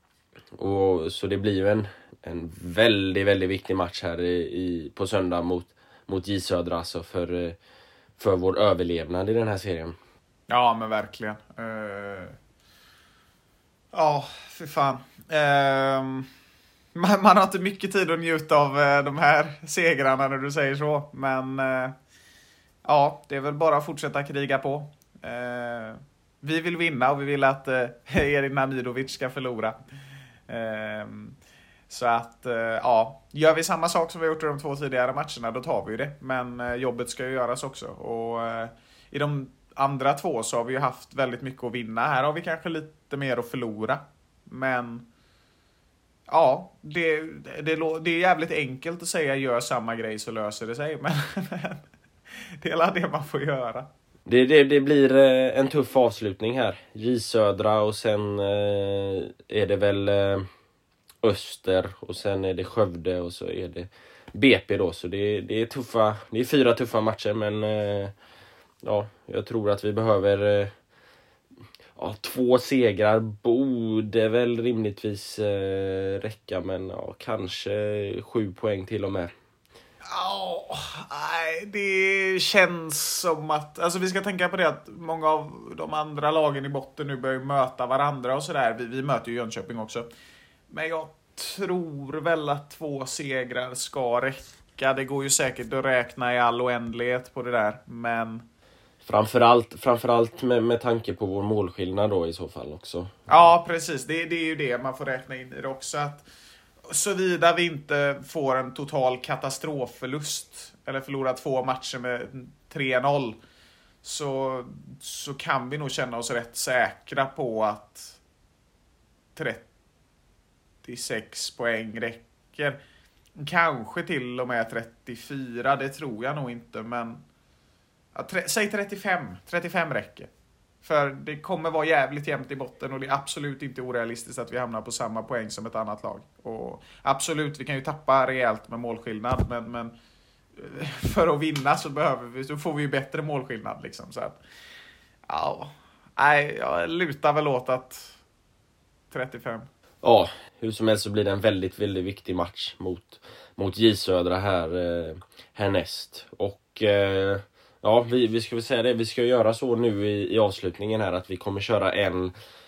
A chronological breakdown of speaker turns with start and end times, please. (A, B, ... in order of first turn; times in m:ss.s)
0:00.6-0:07.6 A
0:08.2-0:10.0 A
0:10.5-0:12.4 B
0:13.9-0:16.3 B
0:16.9-0:22.0 B
0:22.8-0:29.8 B
0:30.5-0:31.4 B
0:31.9-0:45.1 B
0:46.3-0:51.8 B
0:52.6-0:53.9 B
0:54.3-1:00.5 A
1:01.2-1:08.1 A
1:08.8-1:10.7 A
1:12.0-1:19.3 A
1:20.0-1:30.1 B
1:30.7-1:38.4 B
1:39.0-1:43.2 A
1:43.3-1:46.3 B
1:46.8-1:53.4 B
1:54.0-1:58.2 B
1:59.3-1:59.6 B
2:00.8-2:02.8 B
2:03.3-2:07.2 B
2:08.1-2:10.3 B
2:10.8-2:19.9 B
2:20.6-2:24.4 B
2:25.3-2:28.2 B
2:29.1-2:29.7 B
2:30.0-2:42.3 A